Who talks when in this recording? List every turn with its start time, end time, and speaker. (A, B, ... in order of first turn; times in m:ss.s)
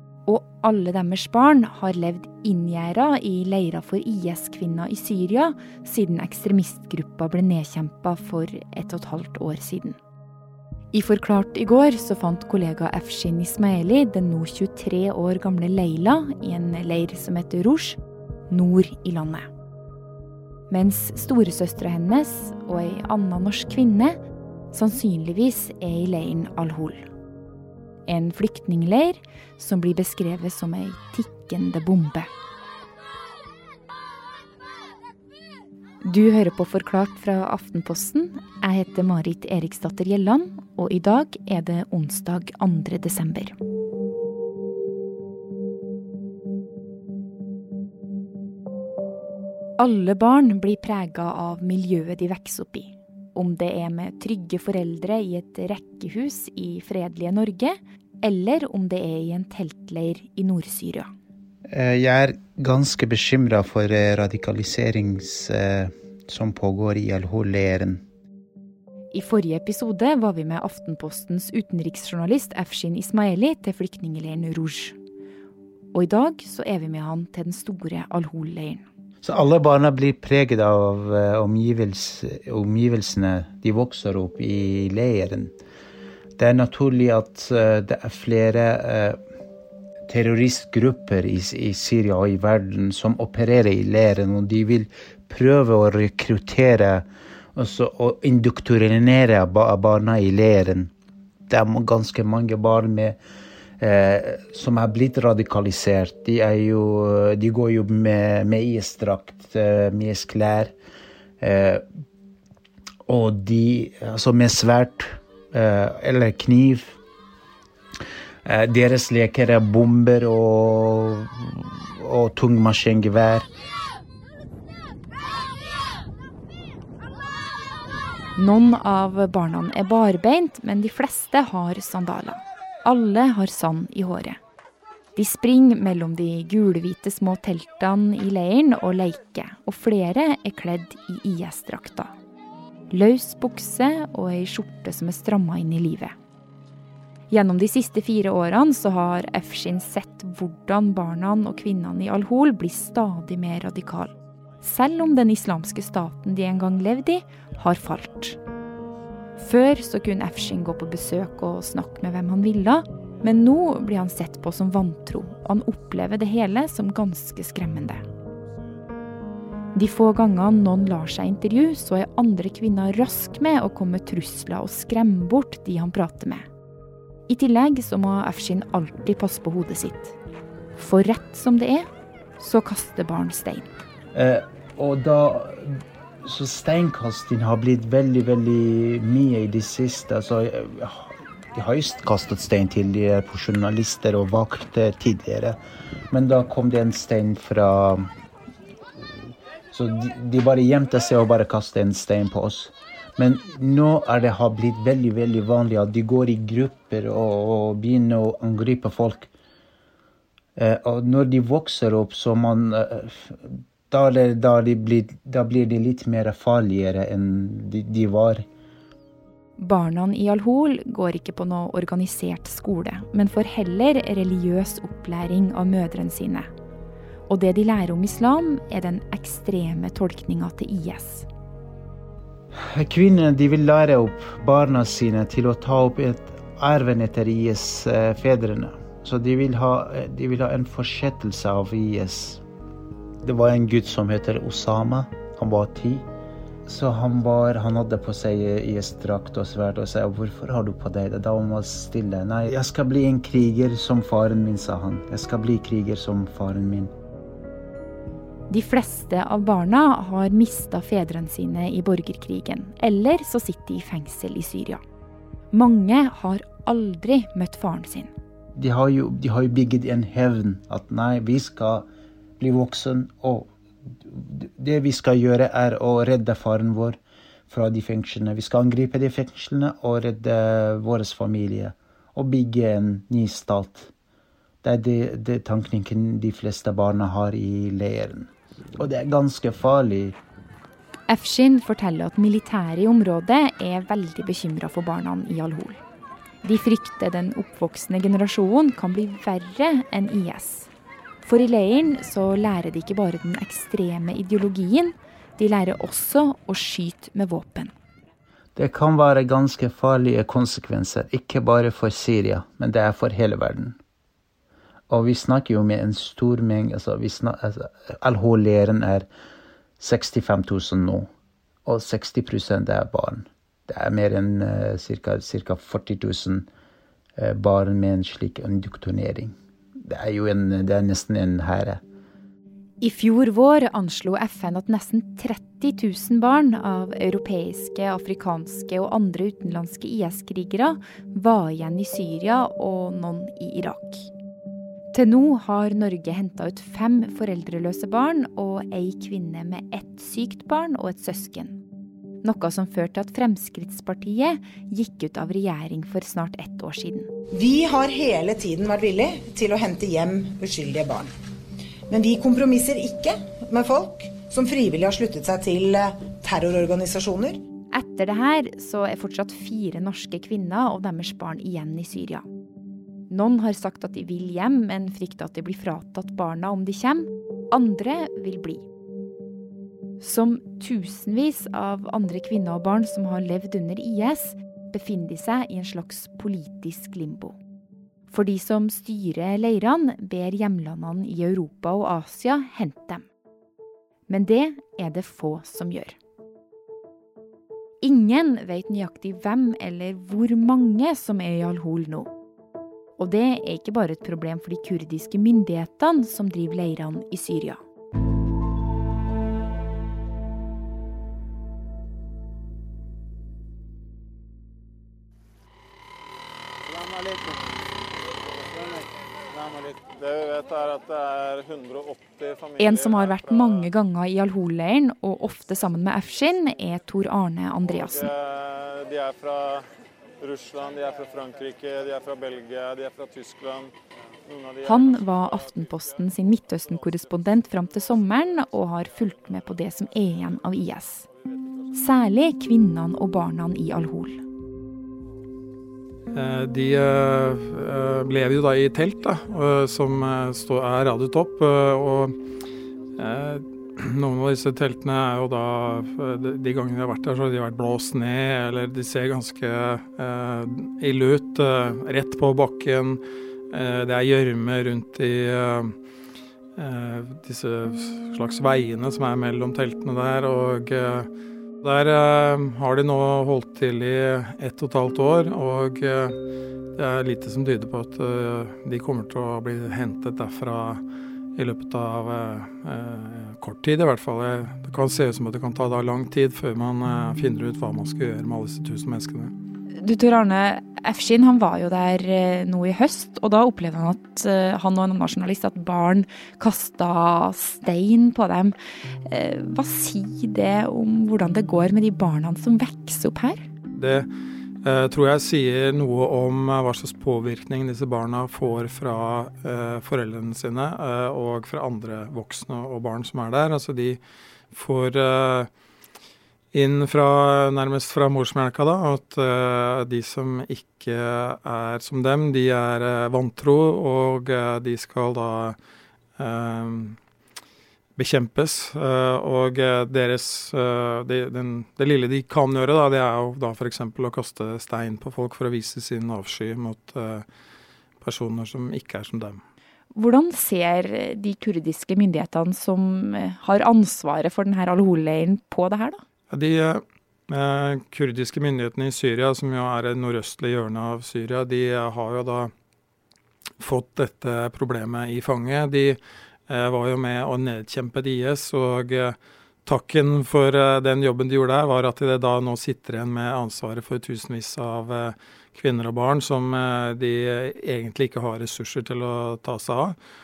0:00.3-0:10.0 A
0:10.9-0:19.5 A
0:20.7-0:24.2 A
0:24.7-0:27.1 A
0:28.1-0:32.3 A
0:36.0-0:43.6 A
0:49.8-1:01.1 A
1:01.7-1:08.0 B
1:09.1-1:15.0 A
1:15.9-1:18.8 A
1:19.2-1:25.5 B
1:26.4-1:29.2 B
1:30.1-1:40.9 B
1:41.5-1:43.2 B
1:43.8-1:50.7 B
1:51.4-1:51.8 B
1:53.1-1:57.0 B
1:58.4-2:03.5 B
2:08.4-2:14.4 A
2:15.2-2:22.1 A
2:22.9-2:26.2 A
2:27.3-2:38.4 A
2:39.4-2:48.0 A
2:49.8-2:56.4 A
2:57.3-3:00.2 A
3:00.8-3:01.9 A
3:02.4-3:03.7 A
3:04.1-3:15.6 B
3:16.1-3:18.1 B
3:19.7-3:29.3 B
3:30.6-3:38.4 B
3:39.6-3:46.5 A
3:47.3-3:51.3 A
3:52.6-4:02.4 B
4:03.2-4:06.1 B
4:06.7-4:16.9 B
4:18.5-4:24.8 A
4:25.5-4:28.1 A
4:28.6-4:31.9 B
4:32.4-4:33.5 B
4:34.0-4:37.0 B
4:37.5-4:43.9 B
4:44.6-4:50.2 B
4:51.1-4:55.8 A
4:56.4-5:00.7 A
5:01.2-5:07.7 A
5:08.6-5:13.8 B
5:14.9-5:19.1 B
5:19.8-5:21.1 B
5:21.7-5:26.5 B
5:27.2-5:29.3 B
5:29.8-5:31.8 B
5:32.8-5:44.1 A
5:44.9-5:51.6 A
5:52.2-5:57.1 A
5:57.3-6:01.1 C
6:01.9-6:07.4 C
6:07.7-6:12.3 A
6:13.1-6:18.6 A
6:20.0-6:27.4 A
6:28.1-6:33.1 A
6:34.1-6:36.0 A
6:37.8-6:42.1 A
6:43.0-6:47.6 A
6:59.8-7:03.2 D
7:02.6-7:08.1 A
7:08.2-7:09.6 D
7:10.2-7:13.7 D
7:14.3-7:14.7 D
7:14.6-7:21.1 A
7:21.7-7:24.2 A
7:26.1-7:32.2 E
7:33.0-7:45.7 E
7:46.6-7:51.1 E
7:51.6-7:56.2 E
7:56.8-8:00.8 E
8:01.4-8:09.3 E
8:09.8-8:23.5 A
8:23.8-8:24.1 E
8:24.6-8:34.0 E
8:34.5-8:35.5 E
8:36.5-8:45.6 E
8:46.2-8:47.0 E
8:48.0-8:57.2 E
8:58.0-8:59.4 E
9:00.0-9:06.0 A
9:06.3-9:12.5 E
9:13.6-9:30.0 E